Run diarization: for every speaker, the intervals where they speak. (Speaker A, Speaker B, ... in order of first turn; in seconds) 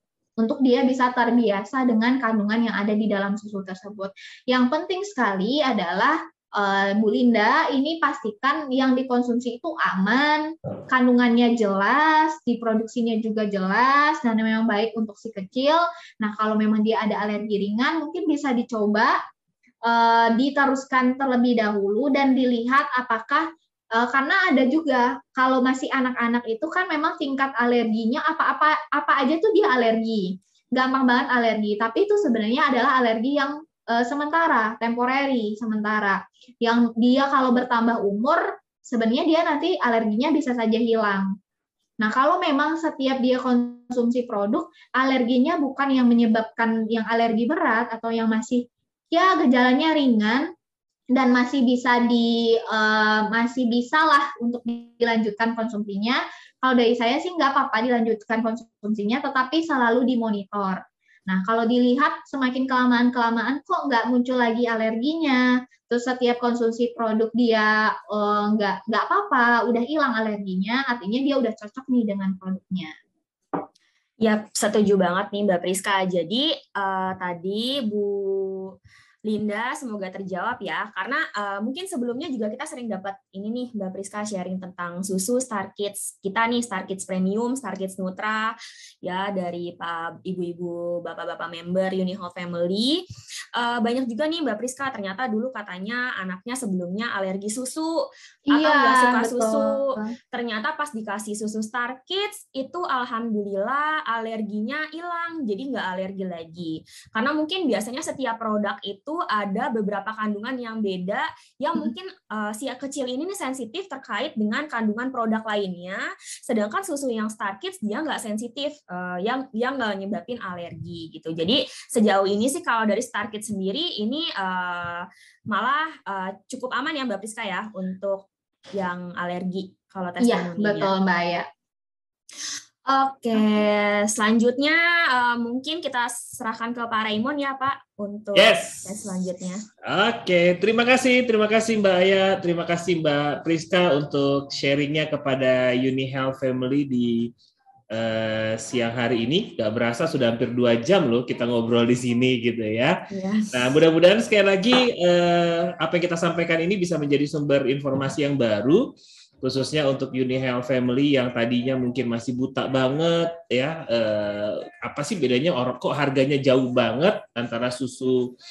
Speaker A: 0.4-19.1, 19.9-41.3, 42.0-50.5, 51.1-72.9, 98.5-100.1, 130.2-131.5
Speaker B: 74.2-78.7, 79.2-93.0, 93.6-130.9, 132.9-139.6, 153.1-153.8
Speaker C: 138.3-139.1, 139.8-147.3, 147.9-153.0, 153.5-168.3